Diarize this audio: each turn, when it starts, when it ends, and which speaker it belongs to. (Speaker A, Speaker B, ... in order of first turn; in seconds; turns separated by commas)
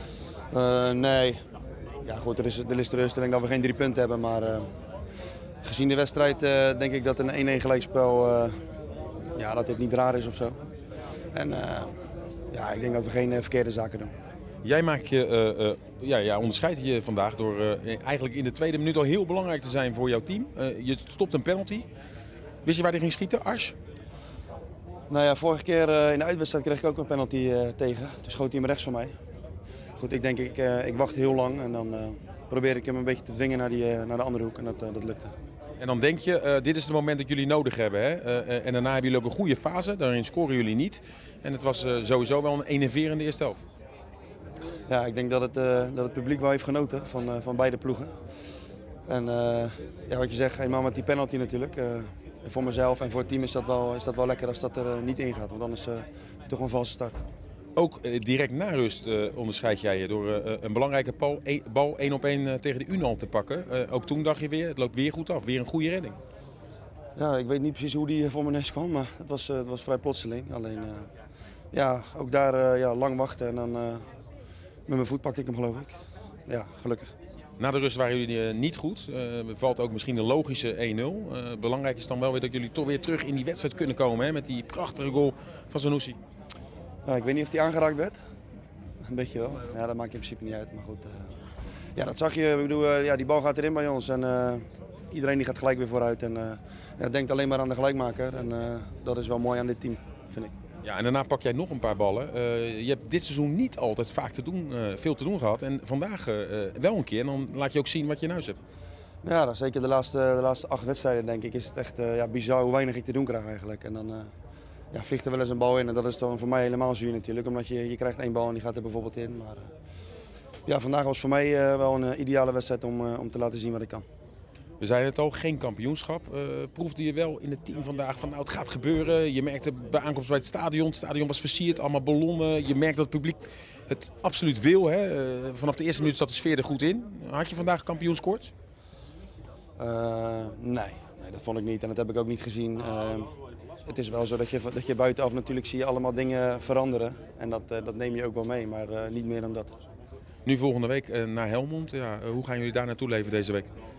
Speaker A: 0.5-1.4, Speaker A: 2.0-4.7, Speaker A: 5.6-8.5, Speaker A: 9.3-10.6, Speaker A: 11.3-11.9, Speaker A: 12.5-14.1, Speaker B: 14.6-21.8, Speaker B: 22.6-23.7, Speaker A: 25.1-29.1, Speaker A: 30.0-35.3, Speaker B: 35.8-43.6, Speaker A: 44.9-48.1, Speaker A: 49.1-57.1, Speaker B: 57.8-66.2, Speaker A: 67.2-71.1, Speaker A: 71.7-74.0, Speaker A: 74.9-75.9, Speaker A: 76.5-77.1, Speaker B: 77.6-86.2, Speaker A: 87.0-88.1, Speaker A: 89.0-91.2, Speaker A: 92.0-100.5, Speaker B: 100.8-108.6, Speaker A: 109.2-114.3, Speaker A: 114.9-119.7, Speaker A: 120.7-124.0, Speaker B: 124.8-138.5, Speaker A: 139.8-143.3, Speaker A: 143.8-149.7, Speaker B: 150.4-153.7